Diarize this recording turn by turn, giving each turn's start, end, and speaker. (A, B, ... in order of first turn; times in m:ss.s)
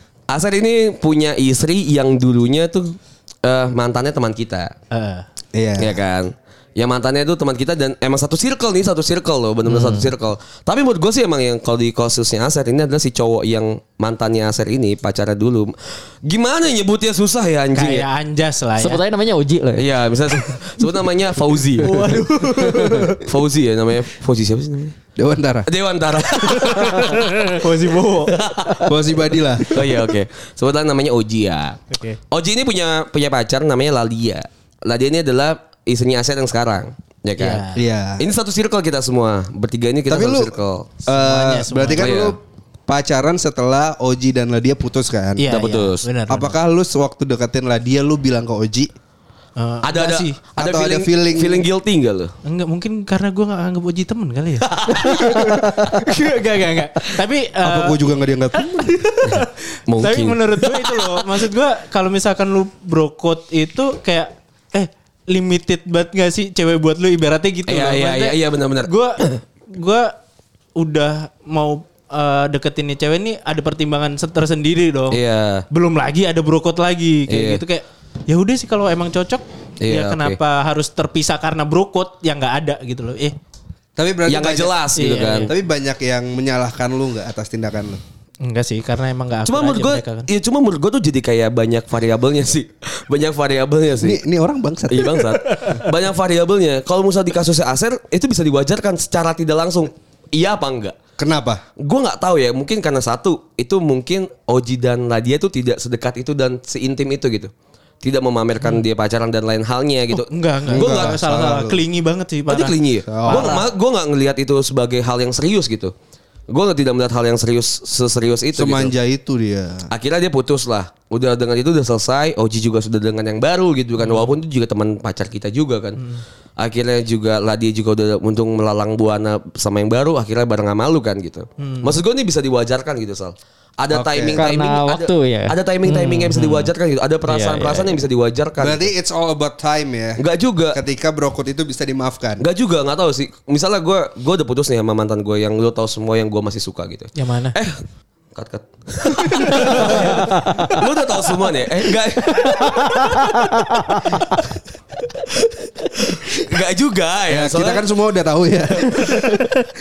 0:00.3-0:04.7 A
0:04.9-0:05.2 B
0:05.5-0:06.0 C
0:05.8-0:18.0 A
0:09.7-0:10.1 D
0:17.7-0:19.0 B
0:18.8-0:19.8 D
0:19.8-0:22.2 A
0:21.8-0:23.2 B
0:22.6-0:23.1 C
0:22.7-0:25.0 A
0:25.2-0:25.7 C
0:25.7-0:29.1 A
0:26.7-0:28.4 B
0:28.9-0:29.8 C
0:29.7-0:37.6 A
0:31.9-0:32.2 B
0:37.4-0:37.8 B
0:37.8-0:38.2 C
0:38.2-0:40.9 A
0:40.1-0:40.5 C
0:41.0-0:45.4 C
0:41.1-0:42.1 B
0:42.0-0:42.4 A
0:45.4-0:46.5 B
0:45.5-0:46.1 A
0:46.3-0:48.9 C
0:49.6-0:50.4 B
0:49.8-0:52.3 A
0:50.6-0:51.6 C
0:52.4-0:58.0 B
0:54.6-0:56.0 A
0:57.6-0:58.9 C
0:58.7-1:10.1 B
0:59.3-1:01.2 A
1:07.7-1:09.4 A
1:10.8-1:15.2 B
1:15.1-1:15.6 A
1:15.7-1:23.4 B
1:17.3-1:17.6 A
1:19.8-1:20.4 A
1:24.0-1:24.7 C
1:24.3-1:25.5 A
1:25.0-1:25.5 B
1:25.5-1:28.0 C
1:28.4-1:30.2 B
1:29.5-1:34.2 A
1:34.0-1:35.4 C
1:34.9-1:41.0 A
1:41.2-1:41.6 C
1:41.8-1:47.5 A
1:48.0-1:51.2 A
1:50.1-1:53.6 B
1:50.7-1:51.8 C
1:52.5-1:55.9 A
1:53.1-1:53.6 C
1:56.5-1:58.9 A
1:58.5-1:59.9 C
1:59.9-2:06.0 A
2:06.6-2:18.9 A
2:11.6-2:11.9 B
2:13.9-2:14.4 C
2:14.3-2:16.7 D
2:17.2-2:18.0 D
2:18.6-2:20.2 C
2:20.2-2:20.8 A
2:20.7-2:22.4 C
2:22.4-2:27.8 A
2:27.2-2:27.6 B
2:28.4-2:34.4 A
2:29.3-2:30.4 B
2:29.7-2:30.0 C
2:30.2-2:30.8 D
2:32.4-2:34.0 D
2:35.3-2:37.8 A
2:37.3-2:39.4 C
2:38.8-2:39.4 A